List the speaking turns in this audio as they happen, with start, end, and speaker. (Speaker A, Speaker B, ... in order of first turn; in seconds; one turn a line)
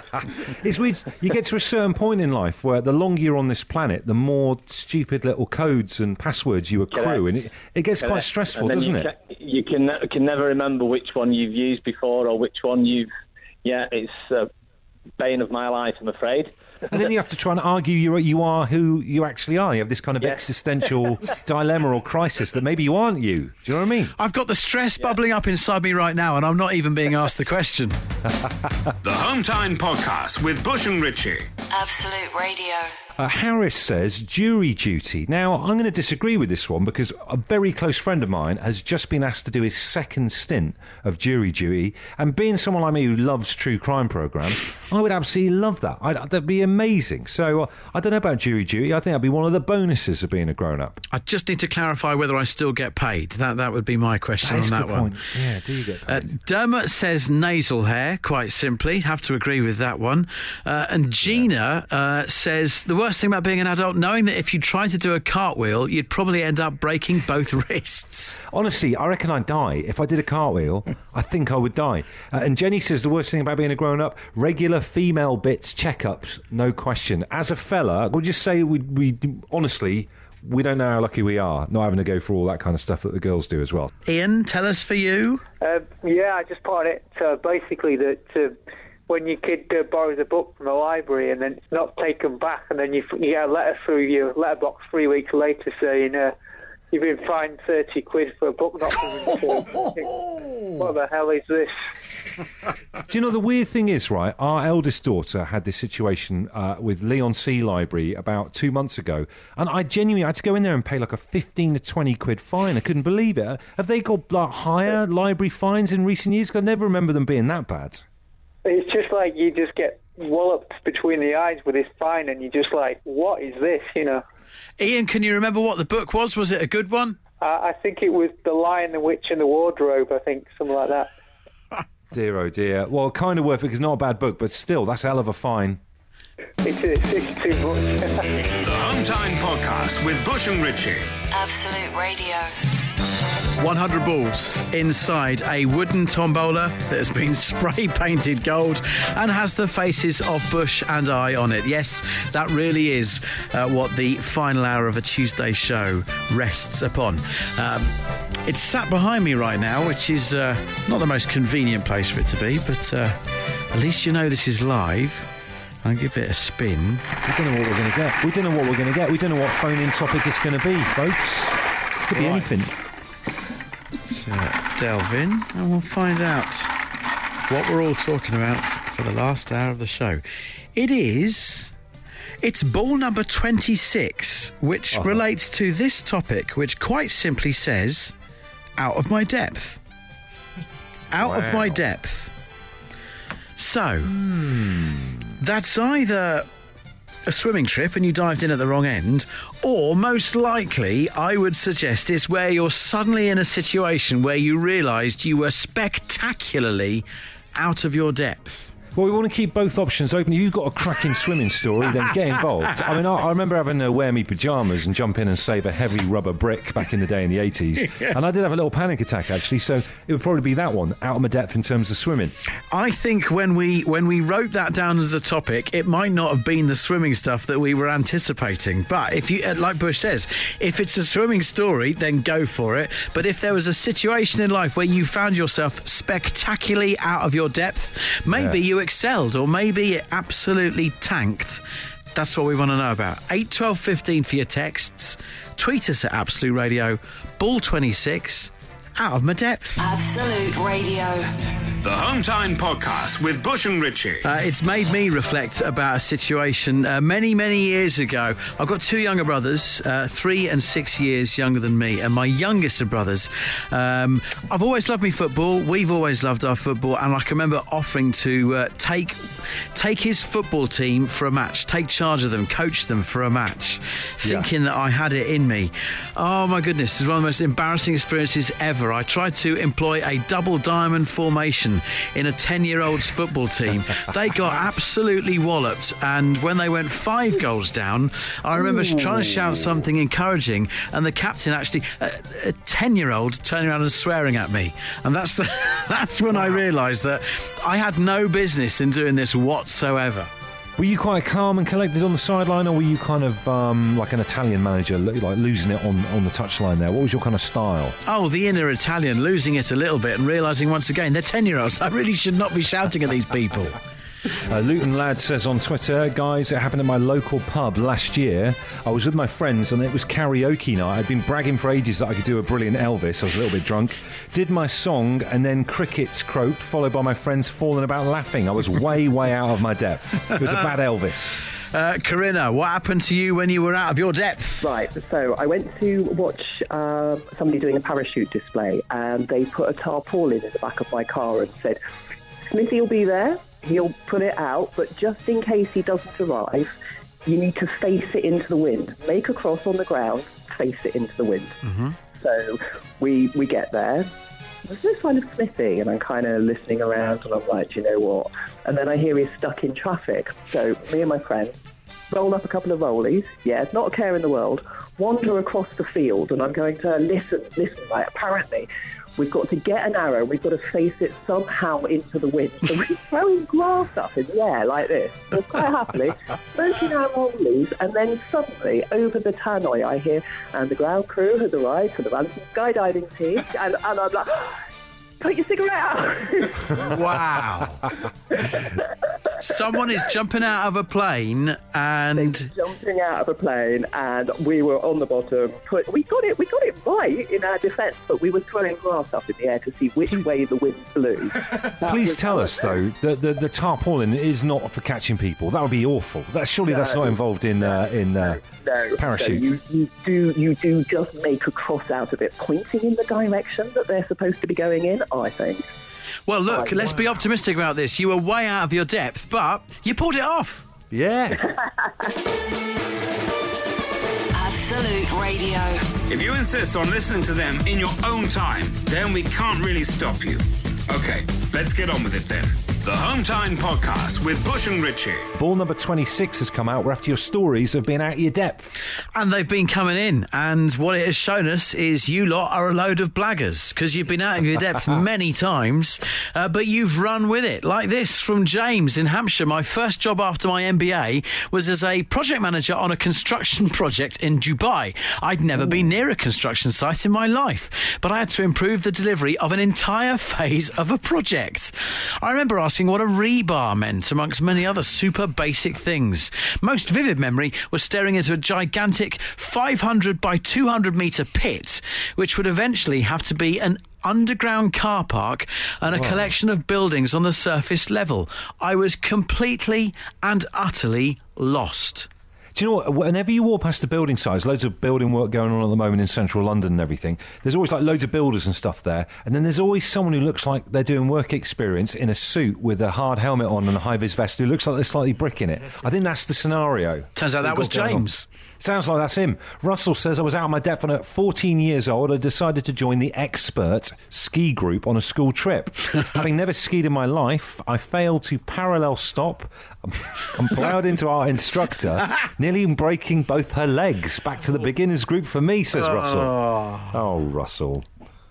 Speaker A: 0.5-9.1
Speaker B: 6.9-7.2
Speaker B: 8.0-13.1
Speaker B: 13.6-14.5
Speaker B: 15.2-16.5
Speaker A: 16.9-24.1
Speaker C: 24.2-28.0
Speaker D: 29.0-31.5
Speaker E: 31.7-32.9
Speaker A: 33.2-51.0
Speaker C: 51.1-55.1
Speaker A: 54.4-56.3
Speaker C: 56.1-68.4
Speaker A: 61.2-61.5
Speaker A: 68.5-83.9
Speaker C: 84.0-85.4
Speaker F: 85.6-88.5
Speaker F: 89.1-96.3
Speaker F: 96.9-100.2
Speaker C: 99.6-100.6
Speaker F: 100.8-101.7
Speaker A: 103.1-118.0
Speaker F: 118.6-124.2
Speaker C: 124.8-127.2
Speaker F: 127.4-131.1
Speaker A: 132.1-135.8
Speaker F: 136.6-138.5
Speaker D: 138.6-141.1
Speaker E: 141.3-142.5
Speaker C: 143.6-163.2
Speaker C: 163.7-165.3
Speaker C: 165.8-167.0
Speaker A: 167.2-172.7
Speaker C: 172.1-172.7
Speaker C: 174.0-176.7
Speaker C: 177.5-180.2
Speaker C: 180.7-181.7
Speaker C: 182.4-188.1
Speaker A: 184.9-185.2
Speaker C: 188.8-189.8
Speaker C: 191.1-192.3
Speaker A: 191.1-191.8
Speaker C: 193.6-194.2
Speaker A: 194.1-195.3
Speaker C: 195.4-196.5
Speaker C: 197.3-207.0
Speaker C: 207.6-208.7
Speaker A: 208.9-222.3
Speaker C: 222.7-241.6
Speaker C: 242.1-249.8
Speaker E: 249.8-251.3
Speaker D: 251.8-254.2
Speaker C: 254.2-300.3
Speaker A: 296.3-296.6
Speaker A: 300.8-308.0
Speaker C: 308.1-313.8
Speaker A: 314.4-331.4
Speaker C: 331.7-334.7
Speaker G: 334.6-341.8
Speaker G: 342.4-346.7
Speaker G: 347.2-351.6
Speaker C: 351.6-351.9
Speaker G: 352.2-354.1
Speaker G: 354.6-361.6
Speaker G: 362.1-384.6
Speaker G: 385.2-386.9
Speaker C: 386.7-387.9
Speaker G: 388.3-388.9
Speaker C: 389.4-392.5
Speaker G: 392.1-402.8
Speaker A: 401.8-408.4
Speaker G: 406.7-415.7
Speaker A: 408.9-409.4
Speaker C: 416.3-420.6
Speaker A: 420.9-421.5
Speaker E: 424.3-425.9
Speaker D: 426.1-435.3
Speaker A: 435.3-438.7
Speaker C: 439.1-482.1
Speaker A: 475.9-476.3
Speaker A: 482.5-498.1
Speaker C: 497.1-498.3
Speaker A: 498.6-517.9
Speaker C: 516.4-516.8